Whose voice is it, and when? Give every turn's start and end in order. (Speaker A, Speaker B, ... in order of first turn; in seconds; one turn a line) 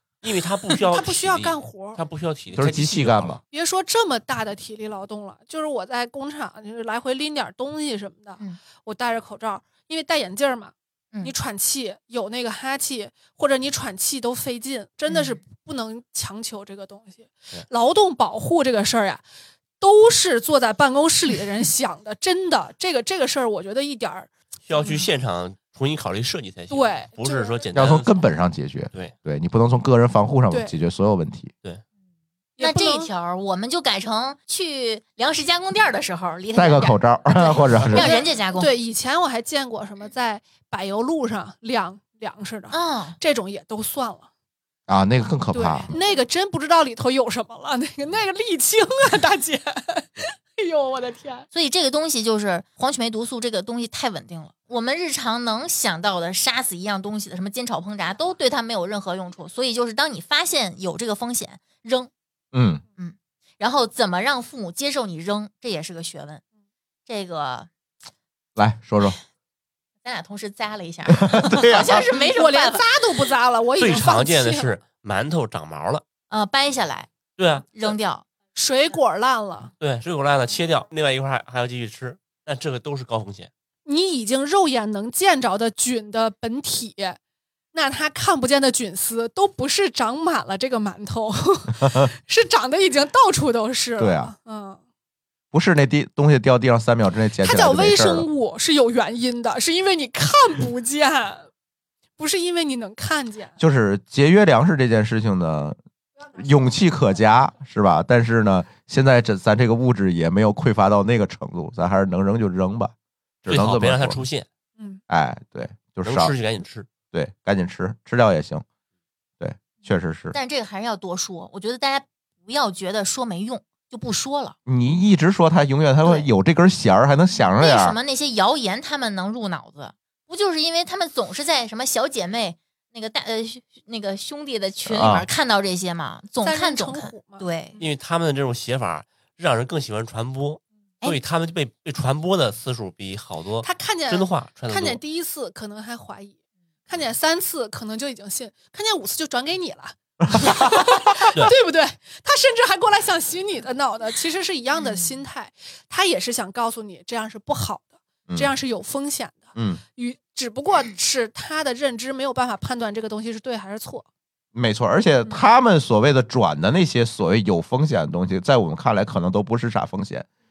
Speaker A: 0.2-3.4
Speaker B: 0.9-2.0
Speaker C: 2.5-3.4
Speaker B: 3.5-19.2
Speaker D: 15.1-15.4
Speaker B: 19.8-25.0
Speaker A: 24.7-28.2
Speaker B: 26.7-27.6
Speaker C: 27.7-31.5
Speaker B: 32.6-33.1
Speaker D: 32.6-38.7
Speaker C: 36.5-38.1
Speaker B: 37.9-44.3
Speaker D: 42.7-43.2
Speaker C: 44.9-45.9
Speaker B: 45.5-51.5
Speaker D: 51.5-62.1
Speaker C: 62.5-62.8
Speaker D: 63.0-66.4
Speaker D: 67.1-67.7
Speaker C: 68.5-69.2
Speaker D: 70.0-72.8
Speaker C: 71.2-72.0
Speaker B: 71.7-74.7
Speaker A: 73.8-76.0
Speaker D: 76.3-77.1
Speaker A: 77.4-77.9
Speaker D: 77.7-78.2
Speaker B: 78.5-79.7
Speaker A: 79.8-83.5
Speaker B: 83.8-87.2
Speaker B: 87.7-94.8
Speaker C: 91.8-92.1
Speaker C: 94.0-94.3
Speaker C: 95.5-98.3
Speaker B: 97.4-101.5
Speaker B: 102.2-103.5
Speaker C: 103.6-105.8
Speaker C: 106.3-112.9
Speaker C: 113.4-114.2
Speaker A: 113.5-114.5
Speaker C: 115.1-116.3
Speaker A: 116.0-116.9
Speaker C: 117.1-118.6
Speaker C: 119.4-120.3
Speaker D: 120.3-124.5
Speaker C: 124.7-128.0
Speaker D: 126.0-126.3
Speaker D: 127.6-137.8
Speaker C: 134.8-135.3
Speaker B: 136.4-137.9
Speaker A: 137.8-145.0
Speaker B: 143.6-146.3
Speaker B: 146.9-164.1
Speaker C: 150.2-150.9
Speaker D: 154.8-155.2
Speaker C: 159.5-159.8
Speaker C: 164.5-170.2